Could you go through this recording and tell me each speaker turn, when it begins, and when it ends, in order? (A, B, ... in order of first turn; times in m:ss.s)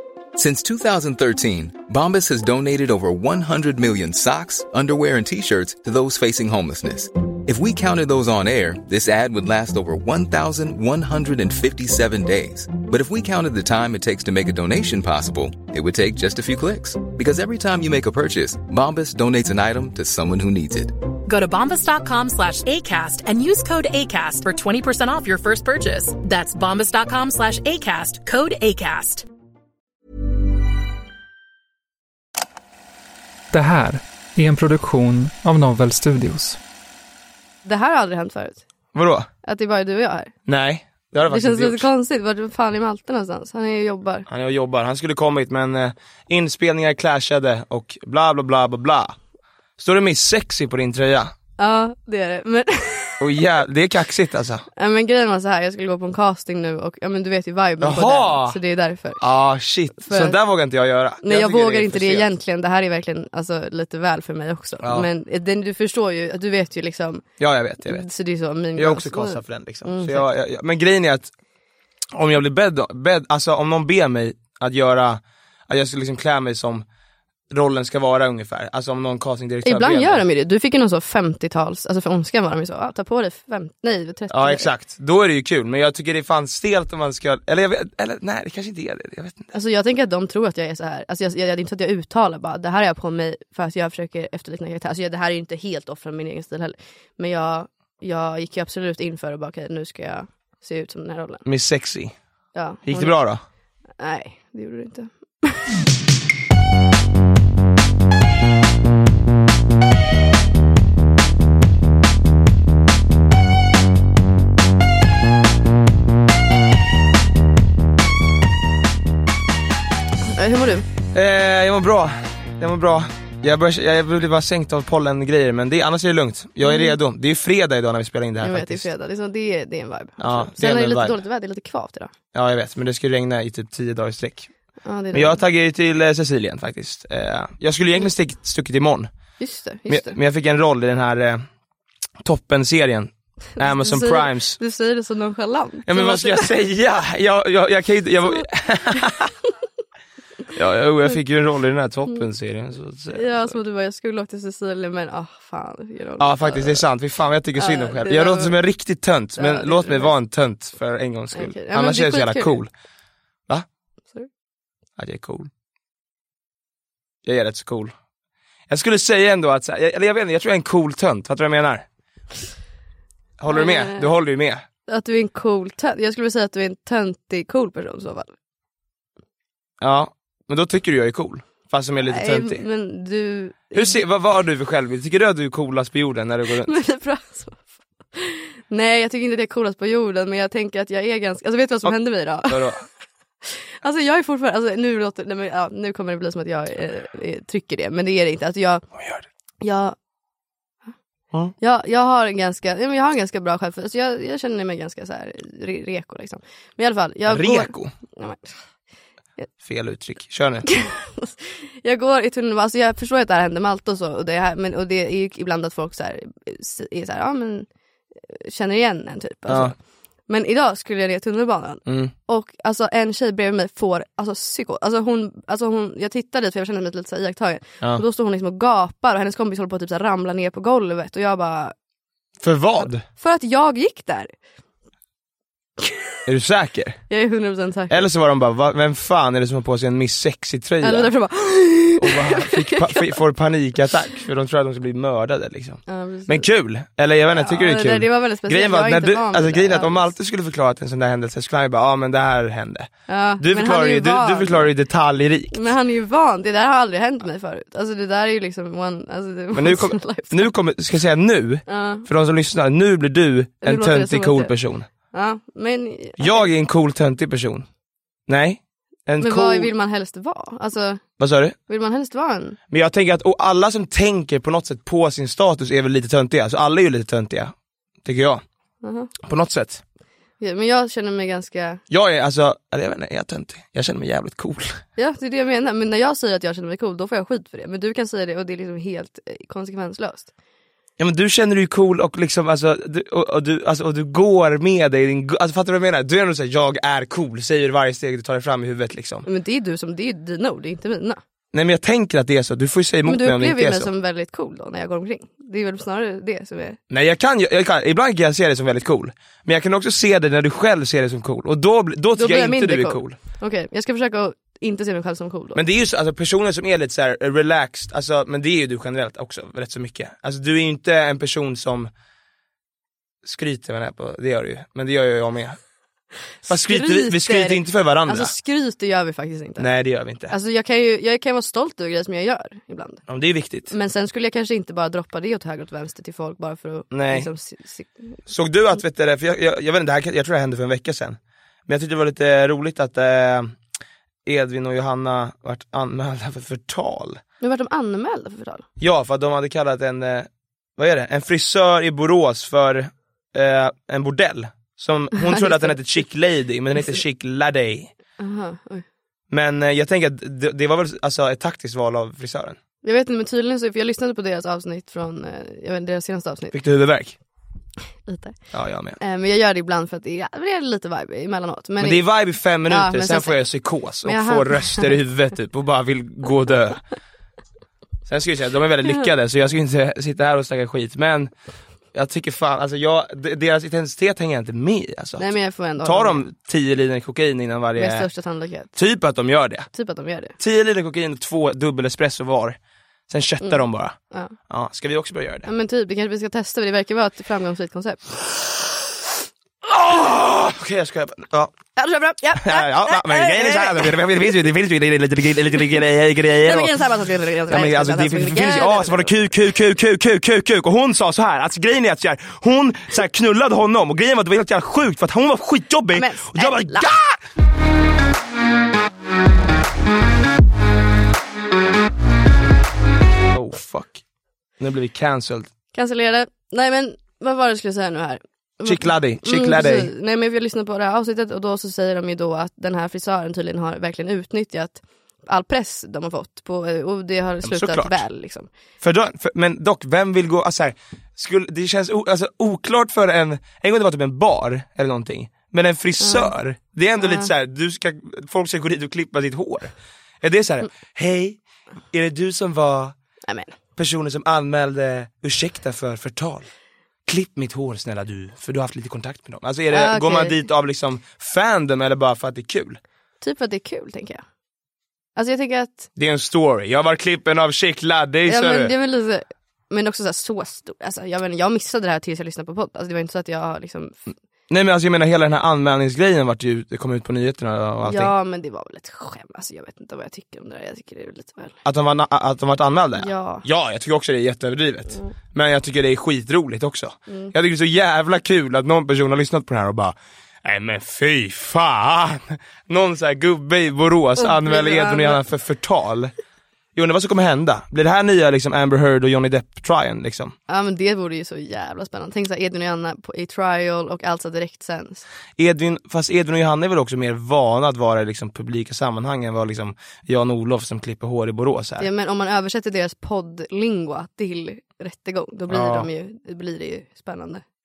0:00.4-0:20.9 A
0:21.2-0:29.2 B
0:33.5-0:36.6 C
0:37.6-0:38.6 D
0:38.9-0:39.3 E
0:39.4-0:40.3 D
0:40.5-0:41.9 E
0:41.2-0:44.2 D
0:44.3-0:49.2 E
0:49.8-0:51.3 E
0:51.6-0:53.2 D
0:53.2-0:54.6 E
0:54.7-0:59.2 D
0:57.8-0:58.6 E
0:59.2-1:02.3 E
1:00.0-1:00.4 D
1:01.2-1:07.2 D
1:07.4-1:08.1 E
1:07.8-1:10.3 D
1:08.7-1:11.3 E
1:12.1-1:16.8 E
1:17.5-1:20.2 E
1:19.6-1:24.7 D
1:24.3-1:29.5 E
1:29.5-1:41.4 D
1:41.4-1:42.2 E
1:42.5-1:43.2 D
1:42.8-1:43.4 E
1:44.0-1:45.7 D
2:00.2-2:00.8 D
2:01.1-2:08.9 E
2:06.6-2:07.0 D
2:08.4-2:12.1 D
2:10.2-2:11.2 E
2:12.3-2:14.5 E
2:14.8-2:15.4 D
2:15.1-2:19.1 E
2:19.4-2:20.2 D
2:19.9-2:21.4 E
2:22.2-2:24.6 E
2:23.6-2:26.5 D
2:25.9-2:29.3 E
2:30.5-2:33.5 E
2:33.1-2:36.8 D
2:36.2-2:42.7 E
2:37.6-2:38.6 D
2:39.4-2:40.1 D
2:41.3-2:42.6 D
2:45.0-2:45.5 E
2:47.2-2:47.9 E
2:48.7-2:51.8 E
2:53.4-2:54.6 E
2:53.5-2:54.1 D
2:54.9-2:58.3 D
2:59.8-3:02.6 E
3:02.1-3:04.0 D
3:03.7-3:06.8 E
3:06.6-3:12.7 D
3:12.5-3:12.8 E
3:13.4-3:18.9 D
3:19.0-3:19.2 E
3:19.6-3:20.0 D
3:21.6-3:28.6 D
3:27.3-3:27.9 E
3:29.6-3:30.6 E
3:30.6-3:37.7 D
3:38.2-3:39.7 D
3:39.5-3:39.7 E
3:40.3-3:51.7 D
3:41.8-3:42.1 E
3:52.4-3:53.0 E
3:52.8-3:54.3 D
3:55.8-3:56.1 D
3:56.2-3:57.0 E
3:57.1-3:58.1 D
3:57.9-4:01.1 E
4:00.8-4:03.1 D
4:02.0-4:15.6 E
4:05.9-4:06.4 D
4:07.3-4:10.1 D
4:13.1-4:14.7 D
4:15.5-4:20.5 D
4:19.5-4:24.9 E
4:21.7-4:22.1 D
4:23.6-4:26.5 D
4:26.2-4:27.6 E
4:28.3-4:29.7 E
4:29.2-4:31.0 D
4:31.2-4:31.6 E
4:31.7-4:32.6 D
4:32.7-4:37.5 E
4:38.0-4:38.4 E
4:38.8-4:39.1 D
4:39.2-4:39.8 E
4:40.4-4:41.8 D
4:41.9-4:44.8 E
4:45.0-4:50.3 D
4:51.0-4:59.2 E
4:59.2-5:01.2 D
5:01.5-5:03.9 E
5:03.0-5:06.8 D
5:06.9-5:13.2 E
5:12.2-5:15.6 D
5:15.5-5:21.9 E
5:23.2-5:25.6 E
5:26.4-5:29.7 D
5:26.5-5:28.3 E
5:29.6-5:30.3 E
5:30.3-5:33.0 D
5:33.1-5:33.7 E
5:33.7-5:38.2 D
5:36.9-5:37.3 E
5:38.3-5:43.6 E
5:44.2-5:47.2 E
5:47.4-5:48.6 D
5:48.8-5:57.9 E
5:55.2-5:55.8 D
5:58.2-5:58.8 D
5:59.3-6:02.6 E
6:02.8-6:06.6 D
6:06.5-6:07.2 E
6:08.0-6:08.4 D
6:08.5-6:09.0 E
6:09.0-6:13.4 D
6:11.8-6:16.8 E
6:14.0-6:14.9 D
6:18.1-6:21.3 E
6:21.9-6:28.1 E
6:25.2-6:26.2 D
6:27.8-6:28.7 D
6:28.7-6:29.7 E
6:29.7-6:30.3 D
6:30.4-6:32.6 E
6:33.1-6:35.5 E
6:33.4-6:34.3 D
6:35.4-6:38.2 D
6:39.7-6:41.5 E
6:41.8-6:44.3 D
6:42.4-6:46.8 E
6:46.4-6:49.1 D
6:47.5-6:57.2 E
6:55.9-6:56.9 D
7:03.3-7:04.0 E
7:04.6-7:05.5 E
7:05.7-7:18.5 D
7:08.6-7:09.9 E
7:17.4-7:18.0 E
7:18.8-7:31.4 E
7:26.0-7:26.3 D
7:27.0-7:27.3 D
7:31.9-7:32.9 E
7:33.2-7:33.5 D
7:33.8-7:36.5 E
7:37.0-7:42.8 E
7:39.7-7:40.4 D
7:43.2-7:44.2 D
7:45.2-7:45.9 D
7:46.0-7:48.7 E
7:48.3-7:54.1 D
7:54.5-7:58.1 E
7:57.8-8:01.6 D
8:01.6-8:16.1 E
8:03.0-8:03.4 D
8:07.1-8:07.3 D
8:14.2-8:15.2 D
8:16.7-8:20.3 E
8:20.5-8:25.0 D
8:25.4-8:31.9 E
8:31.8-8:37.4 D
8:35.5-8:35.9 E